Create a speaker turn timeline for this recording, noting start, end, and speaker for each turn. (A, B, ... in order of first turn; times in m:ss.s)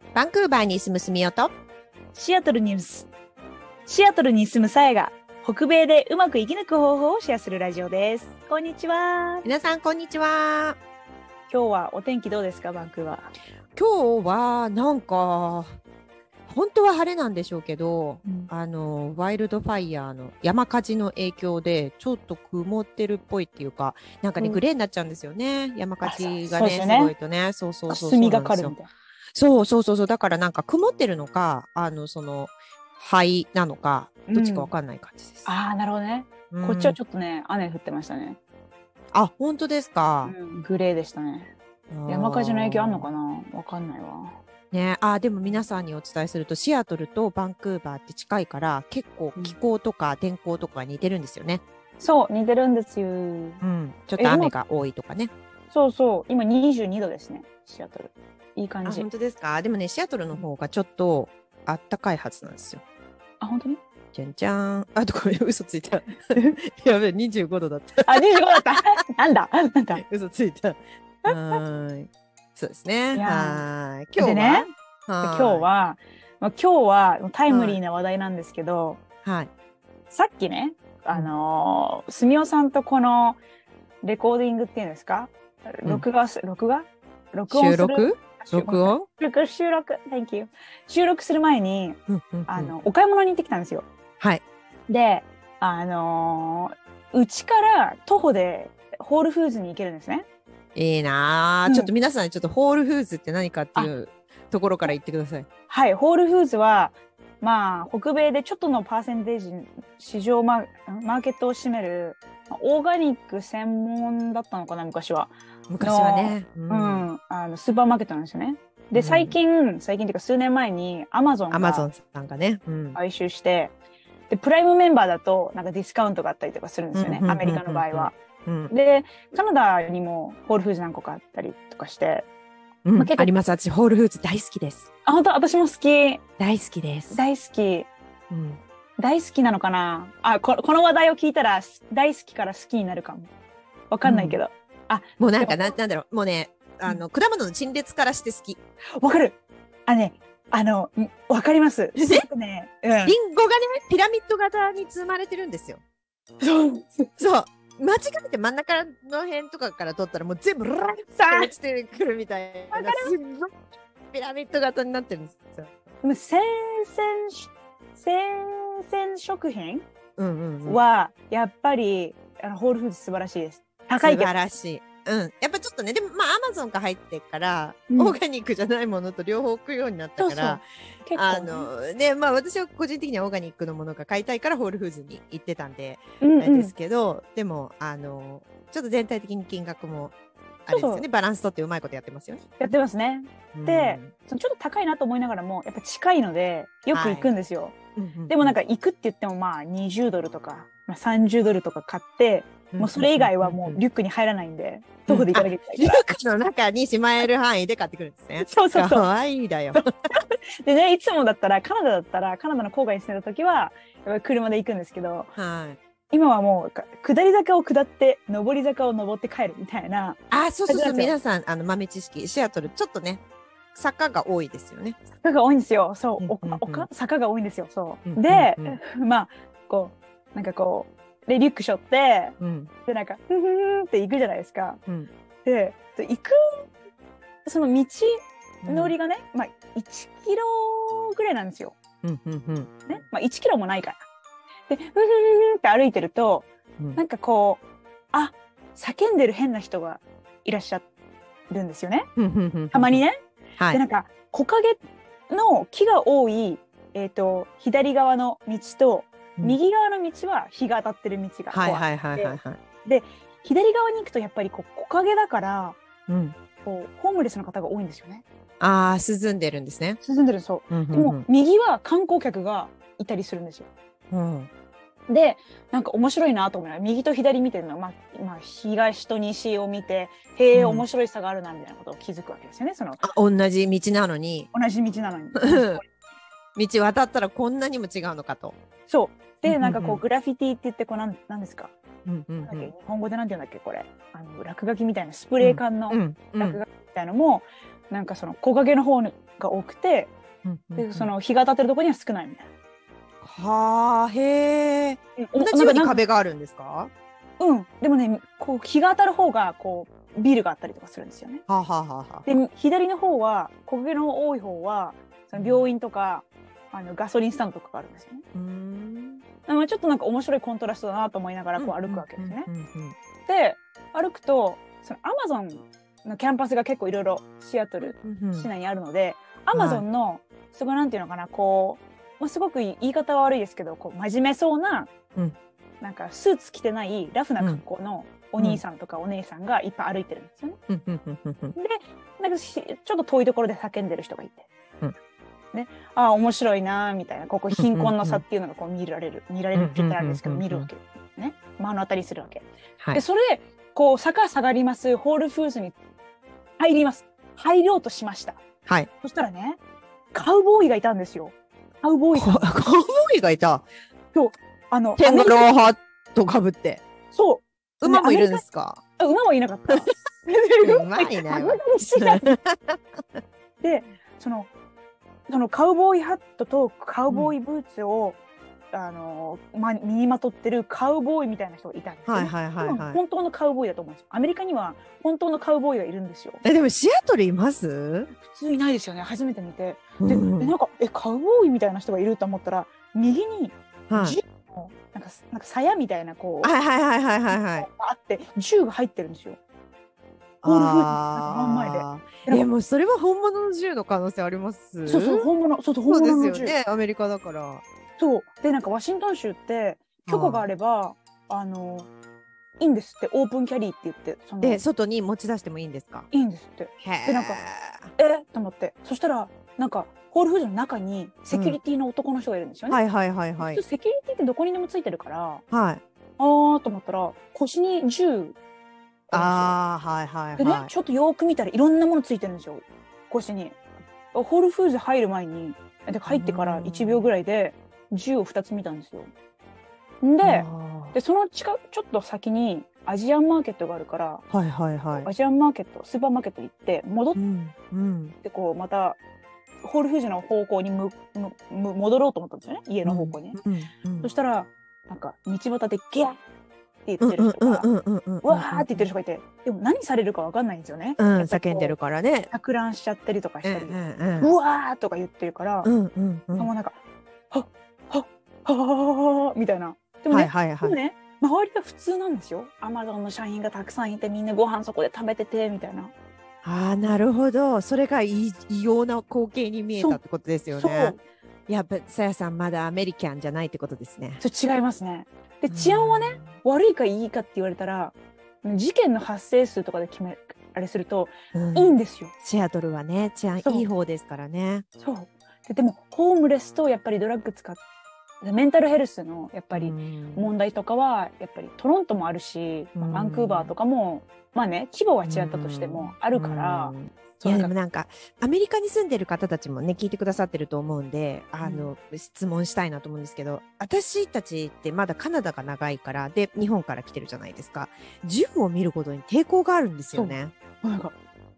0:00.1-0:01.5 A
0:02.1-0:03.1 B
0:03.8-0:09.5 B
0:09.4-0:10.8 A
0:11.5-0:13.3 B
0:13.7-0:15.7 A
0:16.5-0:28.7 A
0:18.2-0:18.5 B
0:26.0-0:27.1 B
0:27.9-0:28.9 B
0:29.3-0:35.5 A
0:34.3-0:34.7 B
0:35.4-0:38.4 B
0:36.5-0:37.0 A
0:39.1-0:40.3 A
0:40.2-0:41.5 B
0:41.9-0:43.1 A
0:42.0-0:44.4 B
0:44.7-0:51.6 A
0:52.0-0:53.6 B
0:53.6-0:55.3 A
0:54.2-0:54.5 B
0:55.7-0:59.1 B
0:58.8-1:02.8 A
1:03.4-1:03.8 B
1:04.1-1:08.6 A
1:08.0-1:10.0 B
1:09.9-1:15.6 A
1:11.3-1:11.6 B
1:13.1-1:14.7 B
1:15.2-1:19.0 B
1:17.5-1:17.8 A
1:19.2-1:19.5 A
1:20.1-1:23.4 B
1:24.0-1:33.9 B
1:27.5-1:29.1 A
1:32.1-1:32.7 A
1:34.9-1:40.2 B
1:40.7-1:45.4 A
1:41.6-1:41.9 B
1:45.7-2:01.9 B
1:55.7-1:57.1 A
1:58.9-1:59.4 A
2:01.5-2:03.0 A
2:02.9-2:03.7 B
2:04.3-2:08.2 B
2:06.9-2:08.7 A
2:08.7-2:12.3 B
2:12.8-2:14.9 A
2:12.9-2:13.3 B
2:15.0-2:16.2 B
2:16.4-2:17.2 A
2:17.1-2:17.9 B
2:18.3-2:18.6 A
2:19.0-2:23.3 B
2:23.9-2:25.7 B
2:24.0-2:24.4 A
2:25.2-2:28.6 A
2:29.0-2:33.2 B
2:32.0-2:32.2 A
2:33.0-2:35.8 A
2:36.4-2:37.1 B
2:37.2-2:43.6 A
2:41.1-2:41.5 B
2:42.7-2:43.1 B
2:44.1-2:45.8 A
2:46.0-2:49.8 B
2:50.2-2:50.8 A
2:50.6-2:54.3 B
2:54.0-3:10.1 A
2:57.9-2:58.2 B
3:00.2-3:01.7 B
3:06.2-3:06.7 B
3:10.6-3:12.4 A
3:10.7-3:11.0 B
3:12.6-3:17.8 B
3:13.5-3:14.1 A
3:16.9-3:17.3 A
3:18.0-3:18.6 A
3:18.3-3:26.0 B
3:22.7-3:23.8 A
3:25.1-3:29.9 A
3:28.4-3:29.1 B
3:29.7-3:35.3 B
3:35.4-3:35.8 A
3:36.1-3:41.1 B
3:40.3-3:43.2 A
3:43.7-3:45.0 A
3:45.2-3:54.8 B
3:46.2-3:46.9 A
3:48.0-3:48.8 A
3:52.4-3:52.7 A
3:55.4-3:56.3 B
3:57.4-4:01.8 B
3:58.6-3:58.9 A
4:02.0-4:02.9 A
4:02.9-4:04.0 B
4:04.7-4:07.6 B
4:08.1-4:10.8 B
4:11.5-4:12.1 B
4:12.2-4:13.0 A
4:12.7-4:13.2 B
4:13.6-4:13.8 A
4:13.7-4:25.8 B
4:21.5-4:22.6 A
4:26.1-4:26.4 A
4:26.6-4:28.2 B
4:28.6-4:30.0 A
4:30.0-4:33.7 B
4:30.7-4:31.2 A
4:34.1-4:34.5 A
4:35.1-4:43.0 B
4:40.5-4:40.8 A
4:43.0-4:44.5 A
4:44.5-4:45.9 B
4:45.4-4:45.8 A
4:46.6-4:48.6 A
4:48.9-4:51.7 B
4:49.4-4:50.0 A
4:52.0-4:52.7 A
4:52.4-5:00.1 B
4:55.4-4:56.6 A
5:00.4-5:01.1 A
5:00.8-5:02.5 B
5:03.2-5:06.9 A
5:05.2-5:06.0 B
5:07.4-5:11.4 B
5:11.5-5:12.3 A
5:12.2-5:18.2 B
5:15.3-5:15.7 A
5:18.3-5:19.2 A
5:19.5-5:22.5 B
5:21.6-5:23.0 A
5:23.2-5:34.9 B
5:27.8-5:28.5 A
5:29.5-5:29.8 A
5:35.8-5:40.6 B
5:40.7-5:41.5 A
5:41.5-5:44.4 B
5:45.5-5:55.7 B
5:47.5-5:48.2 A
5:49.5-5:50.7 A
5:56.6-5:58.4 B
5:59.0-5:59.6 B
6:00.1-6:02.5 B
6:02.1-6:03.7 A
6:04.1-6:05.5 B
6:05.0-6:06.8 A
6:07.1-6:08.4 B
6:07.8-6:08.8 A
6:09.0-6:12.4 B
6:09.7-6:13.2 A
6:13.6-6:14.5 B
6:15.3-6:18.2 B
6:17.1-6:17.4 A
6:18.7-6:26.4 B
6:22.1-6:23.0 A
6:26.4-6:28.1 A
6:28.1-6:36.5 B
6:30.0-6:30.5 A
6:33.9-6:34.2 A
6:36.4-6:37.7 A
6:37.3-6:39.4 B
6:40.4-6:45.3 A
6:40.4-6:42.4 B
6:44.8-6:46.6 B
6:45.9-6:47.6 A
6:48.0-6:51.9 B
6:50.0-6:50.5 A
6:52.6-6:54.6 B
6:54.4-6:56.1 A
6:56.1-6:57.4 B
6:56.8-6:57.9 A
6:58.0-7:02.8 B
7:01.3-7:01.6 A
7:02.7-7:03.6 A
7:03.4-7:05.4 B
7:05.5-7:05.8 A
7:06.2-7:08.4 B
7:09.1-7:09.5 B
7:09.1-7:10.7 A
7:10.4-7:13.6 B
7:14.1-7:19.1 B
7:16.1-7:17.1 A
7:20.0-7:24.2 B
7:20.2-7:21.0 A
7:24.3-7:25.1 A
7:24.9-7:27.2 B
7:27.1-7:28.2 A
7:28.2-7:29.0 B
7:29.6-7:33.4 B
7:32.8-7:34.1 A
7:34.0-7:36.2 B
7:36.8-7:37.7 B
7:37.0-7:38.9 A
7:38.2-7:41.8 B
7:41.0-7:42.3 A
7:42.3-7:45.7 B
7:43.4-7:44.3 A
7:45.6-7:46.5 A
7:46.4-7:46.8 B
7:47.3-7:55.9 B
7:50.1-7:50.8 A
7:56.4-8:01.0 A
7:59.8-8:00.0 B
8:00.5-8:01.0 B
8:01.5-8:04.2 A
8:04.2-8:12.1 B
8:05.5-8:06.3 A
8:11.3-8:14.6 A
8:13.4-8:13.7 B
8:14.8-8:17.6 B
8:18.2-8:27.5 B
8:19.5-8:20.3 A
8:22.8-8:23.5 A
8:25.0-8:40.3 A
8:31.4-8:31.7 B
8:39.9-8:40.9 B